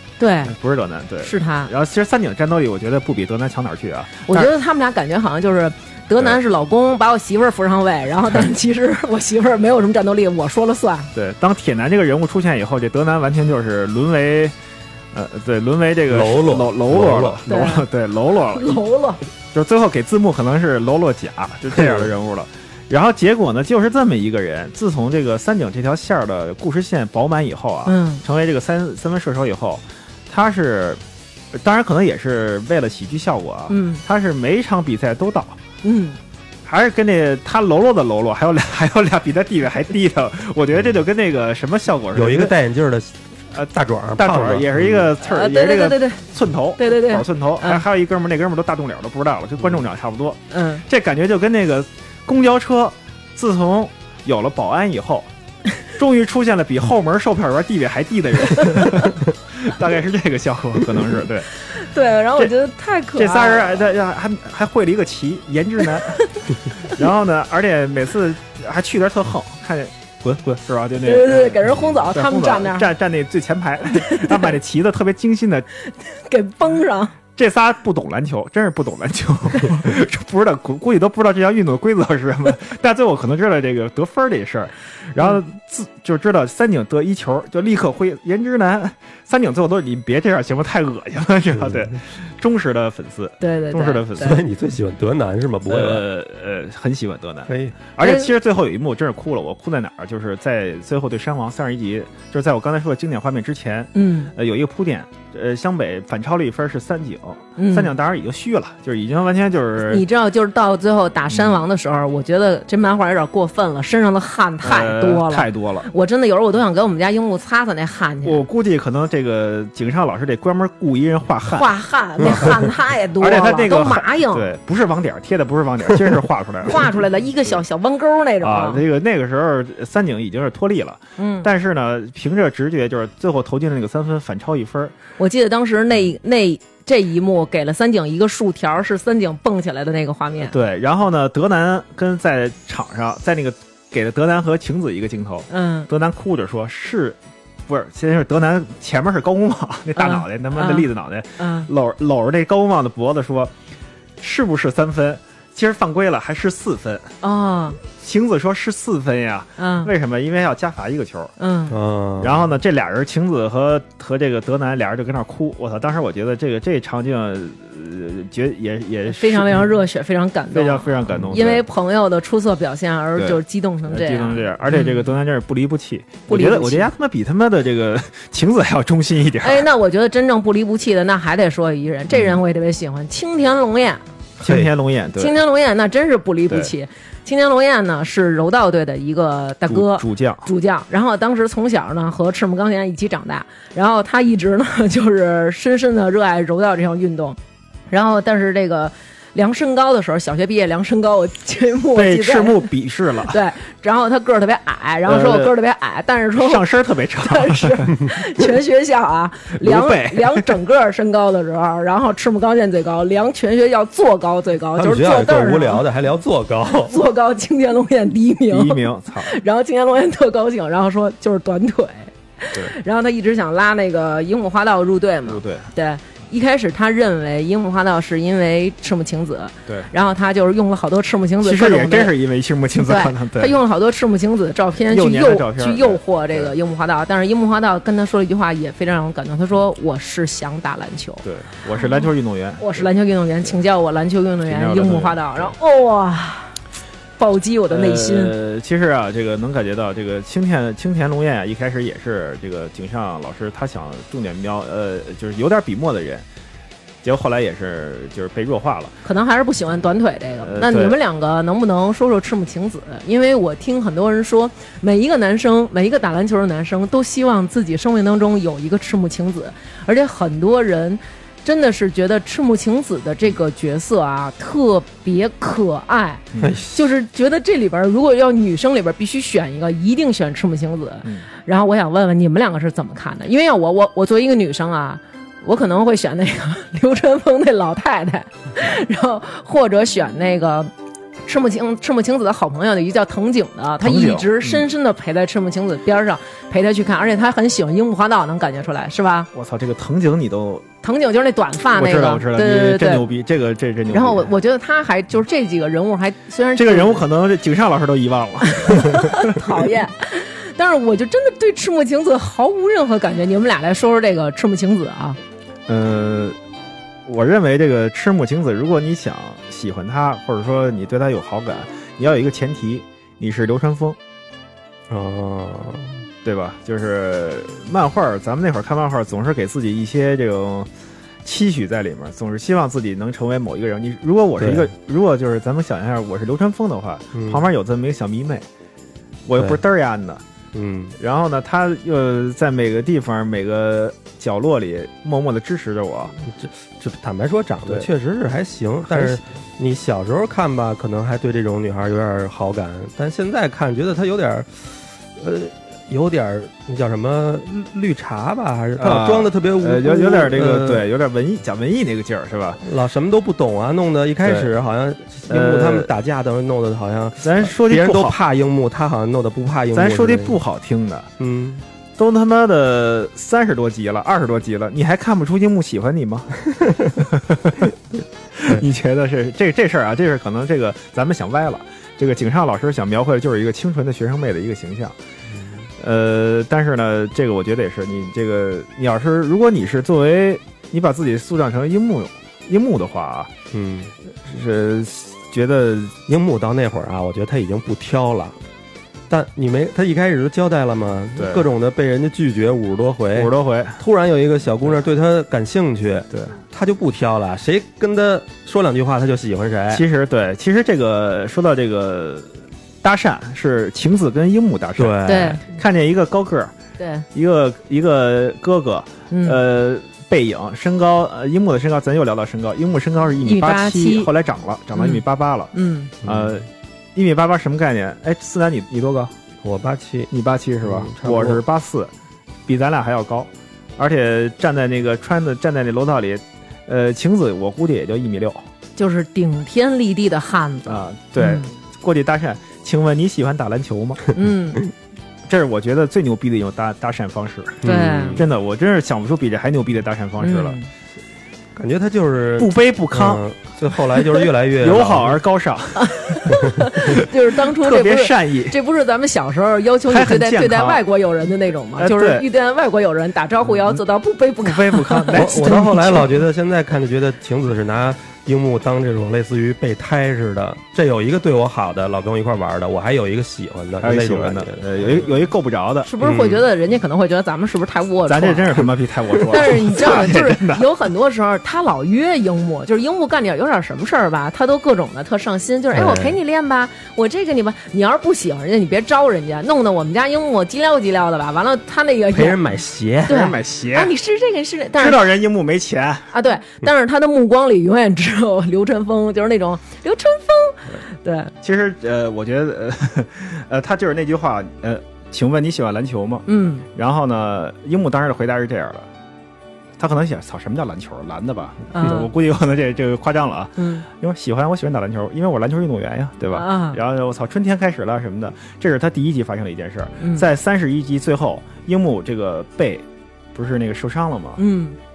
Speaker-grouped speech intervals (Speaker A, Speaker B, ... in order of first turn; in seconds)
Speaker A: 0.2-0.5, 1.2-1.7, 4.2-11.1, 17.5-17.9, 18.5-19.2, 27.9-28.2, 33.7-34.0, 35.8-36.2, 45.2-46.2, 46.8-47.8, 50.5-50.8, 58.5-58.9, 61.7-63.8, 71.0-72.9, 73.8-74.5, 76.0-77.1, 93.4-94.4, 98.0-98.3, 103.9-104.3, 107.6-107.9, 109.8-118.4, 121.5-124.5, 126.6-128.8, 131.2-131.5, 135.2-140.5, 145.5-145.9, 149.9-150.9, 151.4-151.7, 157.2-157.8, 159.6-159.9, 161.4-161.7, 169.1-175.0, 176.3-176.9, 179.4-184.0, 185.2-197.4, 197.9-202.6, 203.3-206.6, 207.2-215.8, 216.9-232.1, 232.8-241.2, 242.6-246.5, 247.2-248.3, 259.0-290.7, 291.2-299.3, 300.8-303.0, 303.9-307.0, 308.6-315.2, 415.1-415.4, 416.8-417.1, 419.1-419.4, 423.2-424.1, 424.8-425.0, 425.5-425.9, 438.8-441.5, 444.1-444.6, 447.6-448.2, 450.2-450.7, 455.8-466.0, 475.8-478.7, 479.3-492.4, 493.1-495.0, 496.1-501.3, 506.3-506.6, 511.7-512.1, 513.6-513.8, 516.3-516.8, 520.0-520.3, 524.4-524.8
Speaker B: 0.5-4.5, 11.1-14.5, 15.1-18.8, 19.5-31.0, 31.5-35.6, 36.6-42.5, 44.1-55.3, 55.9-61.5, 63.1-66.2, 66.8-75.7, 77.3-94.4, 95.7-110.0, 111.3-111.6, 114.6-115.9, 118.2-126.9, 128.4-134.9, 140.5-153.5, 154.2-157.1, 157.8-161.3, 162.2-169.7, 170.5-171.6, 173.2-179.7, 184.4-185.4, 189.7-190.5, 201.9-203.4, 205.1-205.5, 206.3-208.1, 209.6-210.5, 218.5-219.3, 225.3-225.7, 231.4-233.6, 234.9-236.5, 241.2-242.9, 244.4-245.5, 247.7-256.2, 257.0-258.9, 260.4-261.0, 276.3-276.6, 293.8-294.6, 299.3-300.6, 301.7-304.3, 306.6-309.5, 315.7-316.4, 317.1-324.0, 326.2-330.7, 331.2-338.4, 339.3-340.2, 341.0-346.1, 348.9-349.2, 358.8-362.6, 364.2-364.5, 365.3-365.9, 367.2-368.2, 369.7-371.1, 372.0-376.4, 376.9-377.7, 378.3-384.9, 385.8-393.3, 394.2-396.0, 401.2-401.5, 403.1-403.8, 409.7-412.3, 412.8-416.5, 417.1-429.1, 430.1-431.9, 432.5-438.4, 440.7-444.1, 445.3-450.6, 452.4-453.2, 454.6-456.3, 457.5-458.6, 459.9-460.8, 461.8-462.3, 464.4-466.1, 473.8-475.9, 478.1-480.6, 493.1-493.9, 494.8-496.1, 501.4-508.9, 509.8-524.4
Speaker C: 16.1-17.4, 21.7-22.1, 42.1-45.1, 94.2-96.0, 97.5-97.7, 161.7-162.4, 184.4-184.7, 214.8-217.0, 276.4-276.8, 324.9-326.0, 334.4-334.7, 337.1-337.4, 340.5-340.9, 346.2-360.8, 362.6-370.4, 371.2-371.6, 393.5-393.9, 396.1-398.4, 399.1-409.8, 414.8-415.4, 426.0-426.4, 429.4-430.1, 430.6-431.4, 447.6-448.2, 451.6-455.2, 465.1-475.1, 476.0-476.4, 485.7-486.2, 492.1-493.2